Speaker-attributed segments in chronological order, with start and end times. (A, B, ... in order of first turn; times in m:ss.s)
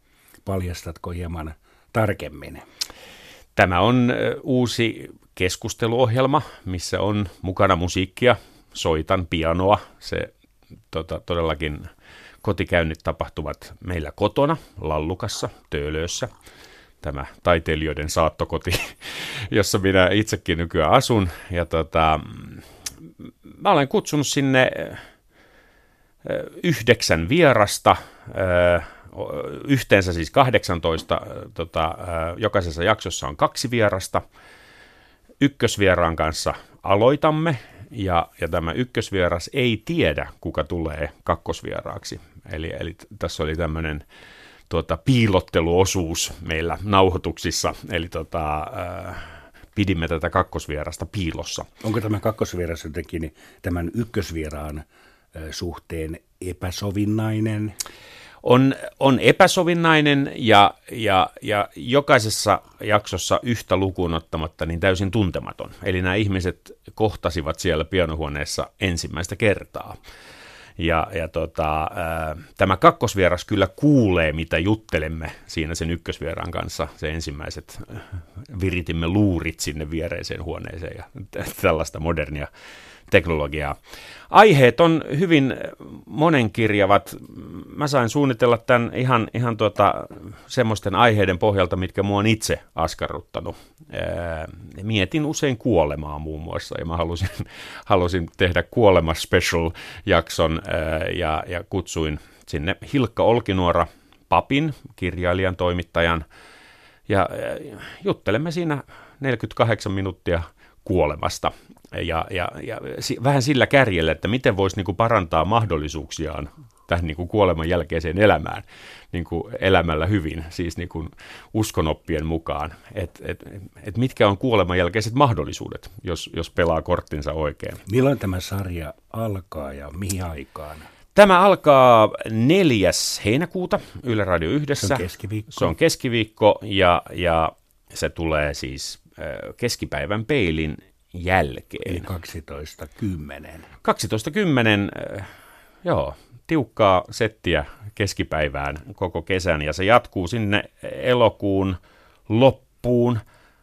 0:00.4-0:02.6 A
0:03.6-0:10.3 B
0:10.9-0:11.9 B
0:12.4-0:16.3 B
0:17.0-0:22.6 B
0:23.4-0:25.0 B
0:26.2-0:34.2 B
0:35.4-0:44.0 B
0:44.7-0:51.7 B
0:51.8-0:57.8 A
0:58.4-1:10.0 B
1:10.8-1:22.5 B
1:23.1-1:23.8 B
1:24.3-1:46.2 B
1:47.1-2:07.8 B
2:07.8-2:10.9 A
2:11.1-2:22.1 B
2:14.8-2:15.7 A
2:21.8-2:23.7 A
2:23.8-2:25.3 B
2:25.8-2:31.8 B
2:32.3-2:33.2 B